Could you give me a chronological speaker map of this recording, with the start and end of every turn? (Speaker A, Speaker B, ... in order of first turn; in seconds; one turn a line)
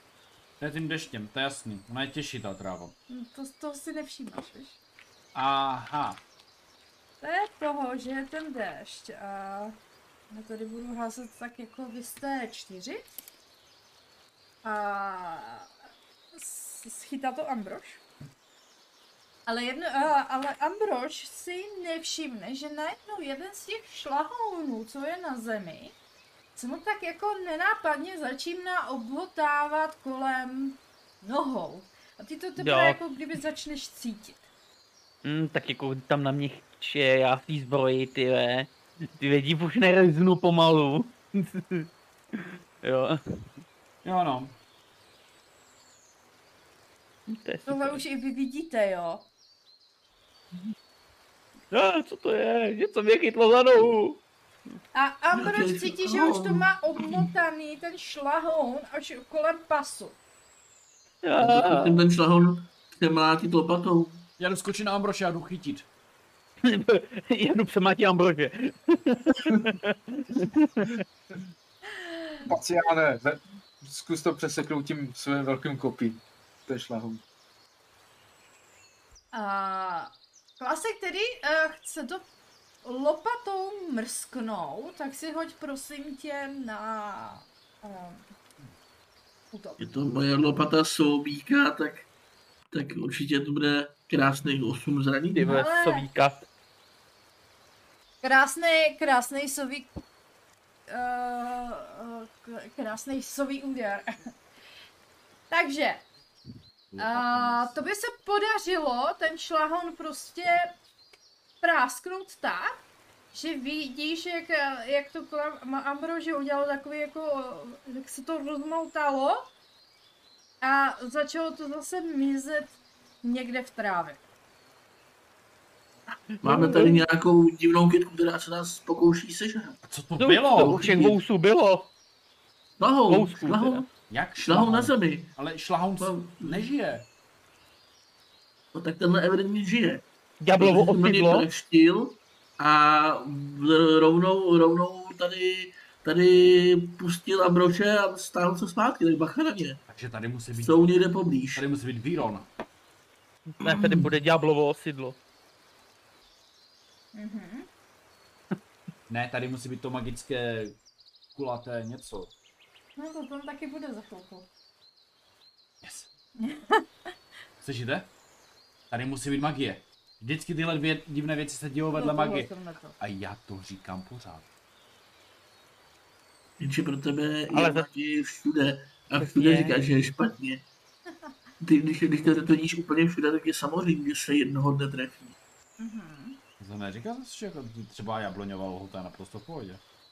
Speaker A: 0.6-3.0
Speaker B: 3.1-4.8
Speaker A: 5.3-6.2
Speaker B: 7.2-9.8
Speaker B: 10.3-13.0
Speaker B: 14.6-15.7
Speaker B: 16.3-18.0
Speaker B: 19.5-26.0
Speaker B: 26.6-34.5
Speaker C: 32.6-33.0
Speaker C: 35.2-43.2
Speaker A: 44.0-44.6
Speaker C: 47.3-48.0
Speaker B: 47.7-49.3
Speaker C: 51.7-54.2
Speaker B: 54.9-60.2
Speaker D: 55.3-57.3
Speaker C: 61.2-62.0
Speaker D: 61.4-64.3
Speaker A: 64.4-65.9
Speaker C: 66.6-71.0
Speaker B: 71.9-72.5
Speaker E: 72.5-77.2
Speaker B: 79.3-82.3
Speaker B: 82.8-88.3
Speaker B: 89.5-89.8
Speaker D: 89.8-92.1
Speaker D: 92.7-95.6
Speaker C: 95.4-96.5
Speaker B: 95.4-96.1
Speaker B: 98.2-99.9
Speaker B: 100.9-104.2
Speaker B: 105.5-106.1
Speaker A: 106.9-107.8
Speaker B: 107.0-110.8
Speaker B: 111.6-119.5
Speaker B: 120.6-124.2
Speaker C: 126.4-127.0
Speaker D: 126.4-129.8
Speaker B: 126.7-126.9
Speaker A: 129.8-130.8
Speaker C: 130.2-131.9
Speaker D: 130.6-131.2
Speaker D: 132.8-135.4
Speaker C: 133.1-133.8
Speaker A: 134.1-137.1
Speaker D: 136.0-136.7
Speaker D: 138.7-140.1
Speaker C: 140.4-141.5
Speaker D: 140.6-149.8
Speaker A: 149.9-150.9
Speaker D: 150.6-151.6
Speaker A: 151.6-152.5
Speaker C: 153.6-155.2
Speaker D: 153.6-154.1
Speaker B: 157.1-157.7
Speaker A: 159.1-160.8
Speaker A: 161.3-162.3
Speaker B: 163.0-164.5
Speaker A: 165.8-166.1
Speaker B: 166.4-166.8
Speaker A: 167.6-168.1
Speaker A: 168.9-174.5
Speaker B: 171.9-173.0
Speaker D: 176.6-180.7
Speaker C: 177.5-177.9
Speaker C: 179.2-179.8
Speaker D: 181.6-185.4
Speaker B: 185.8-186.4
Speaker A: 186.6-189.8